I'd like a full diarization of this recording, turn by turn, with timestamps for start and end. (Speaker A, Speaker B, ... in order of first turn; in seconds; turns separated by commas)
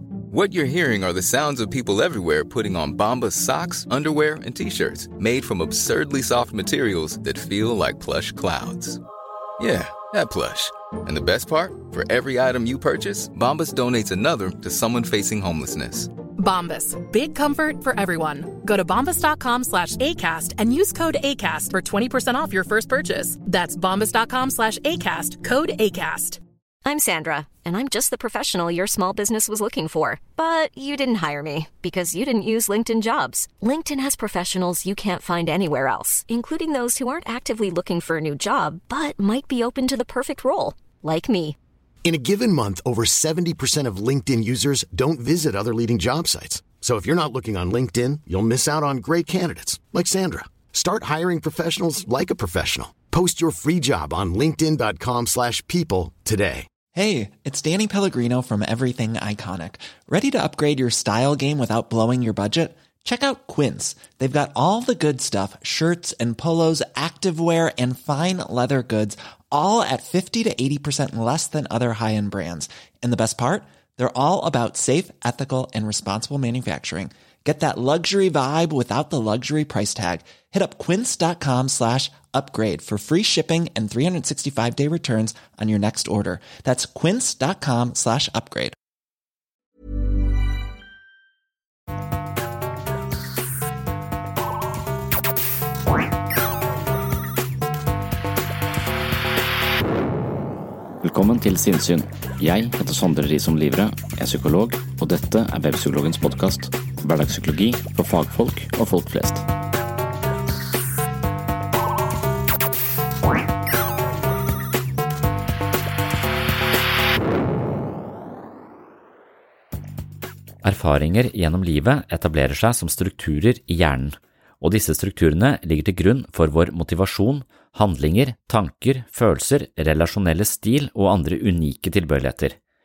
Speaker A: 0.3-9.0, Speaker A: 9.6-16.1, Speaker B: 16.4-26.4, Speaker C: 26.8-41.6, Speaker D: 42.0-56.7, Speaker E: 56.9-88.8, Speaker F: 101.0-109.4, Speaker F: 120.6-132.6